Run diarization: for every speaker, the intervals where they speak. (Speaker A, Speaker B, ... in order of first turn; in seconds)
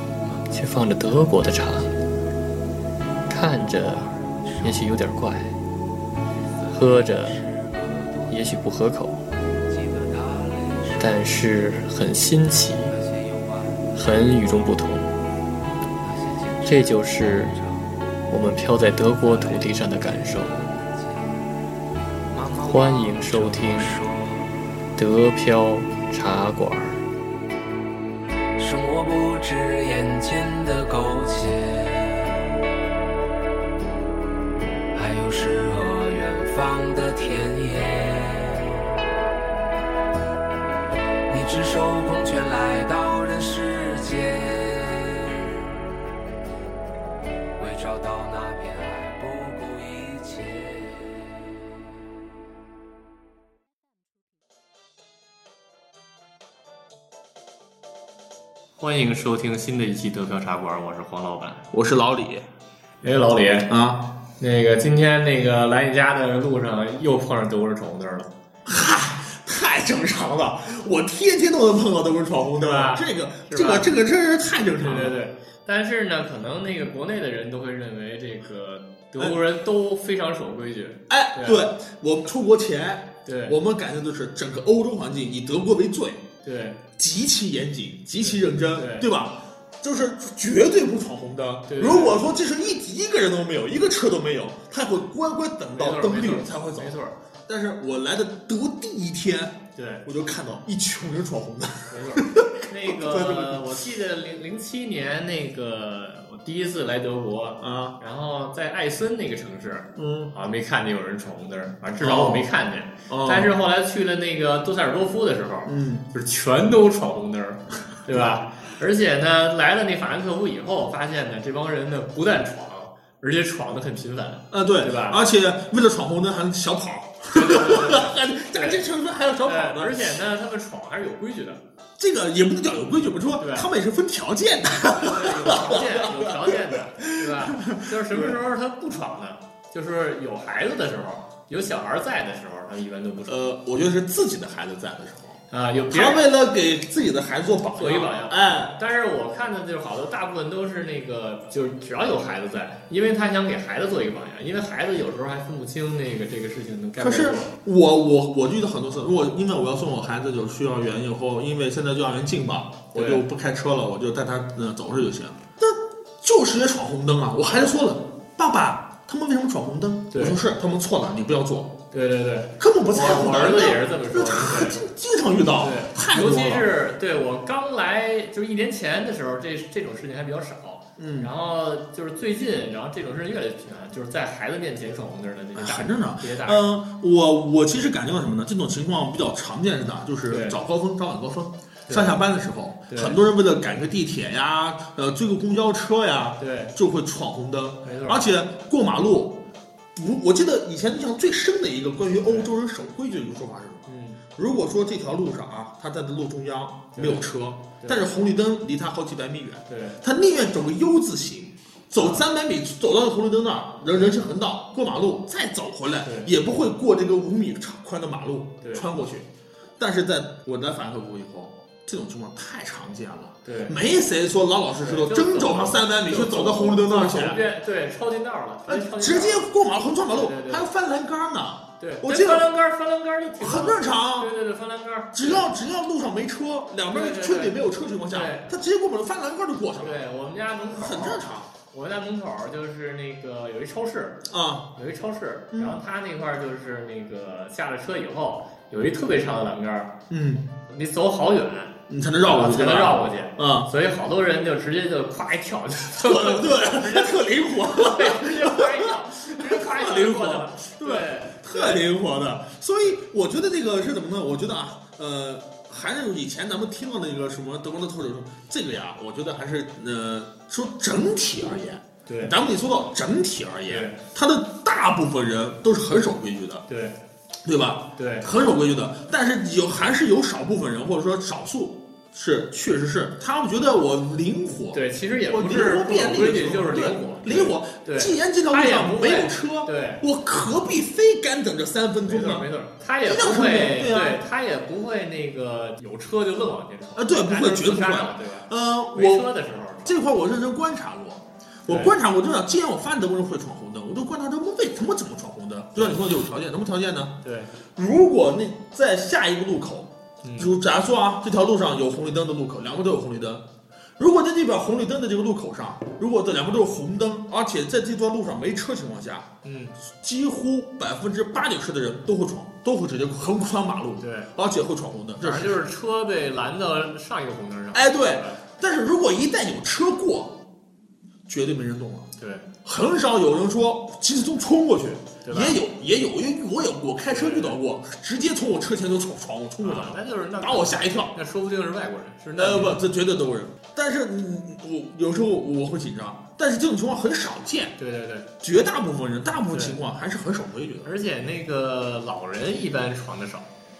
Speaker A: 0.2-1.4, 4.5-4.9, 6.6-8.3, 9.7-11.8, 12.7-13.9, 16.0-17.8, 19.1-21.4, 22.3-24.8, 28.6-32.5, 34.9-38.9, 41.3-45.7, 47.6-51.2
Speaker B: 0.5-1.9, 3.3-5.6, 6.7-7.4, 8.3-9.2, 11.0-13.0, 13.9-15.1, 16.6-17.6, 18.3-20.6, 22.6-24.0, 25.0-27.0, 58.8-61.6, 63.0-63.7, 64.4-68.3, 72.6-73.9, 74.8-81.6, 83.2-83.5, 86.4-86.8, 88.2-89.1, 91.7-92.2, 95.8-97.2, 99.7-100.0, 101.9-125.2, 127.3-128.8, 129.4-131.6, 133.4-133.7, 135.0-143.3, 145.5-146.2, 147.8-157.5, 162.9-163.2, 170.1-170.4, 171.9-174.8, 175.6-186.7, 190.3-190.6, 191.9-192.2, 192.9-193.2, 196.4-196.7, 197.8-198.3, 203.9-204.2, 206.9-207.3, 207.8-208.1, 209.7-210.0, 212.0-212.2, 216.0-216.3, 218.6-218.9, 223.4-223.7, 224.8-229.5, 230.1-230.7, 231.8-235.4, 236.9-237.6, 238.1-238.5, 239.8-244.2, 244.7-249.9, 250.7-261.8, 272.1-272.3, 273.7-274.0, 276.7-276.9, 278.0-278.3, 284.7-290.0, 292.0-300.0, 301.7-301.9, 307.2-307.5, 310.2-310.5, 319.4-319.7, 324.0-324.3, 325.2-328.4, 332.2-332.4, 335.2-335.6, 337.1-337.6, 339.6-342.8, 347.8-348.3, 349.5-349.8, 350.8-353.5
Speaker C: 61.7-62.5, 63.7-64.1, 68.6-75.2, 81.1-86.2, 87.0-96.9, 97.5-103.7, 107.6-108.0, 110.0-110.3, 112.0-112.5, 113.1-113.5, 115.7-116.0, 124.5-130.2, 132.0-138.4, 143.3-148.8, 157.0-171.7, 172.6-176.7, 181.0-181.3, 185.5-199.4, 199.9-219.3, 219.8-227.4, 228.7-232.5, 233.4-234.3, 235.1-240.0, 240.7-241.5, 244.3-244.7, 245.5-245.8, 250.1-250.5, 251.9-253.7, 256.0-276.6, 277.4-292.5, 293.0-294.2, 296.9-299.3, 299.8-307.1, 307.8-313.4, 314.0-319.3, 319.9-325.6, 327.7-330.4, 331.3-332.1, 332.6-341.1, 342.4-347.8, 348.4-350.9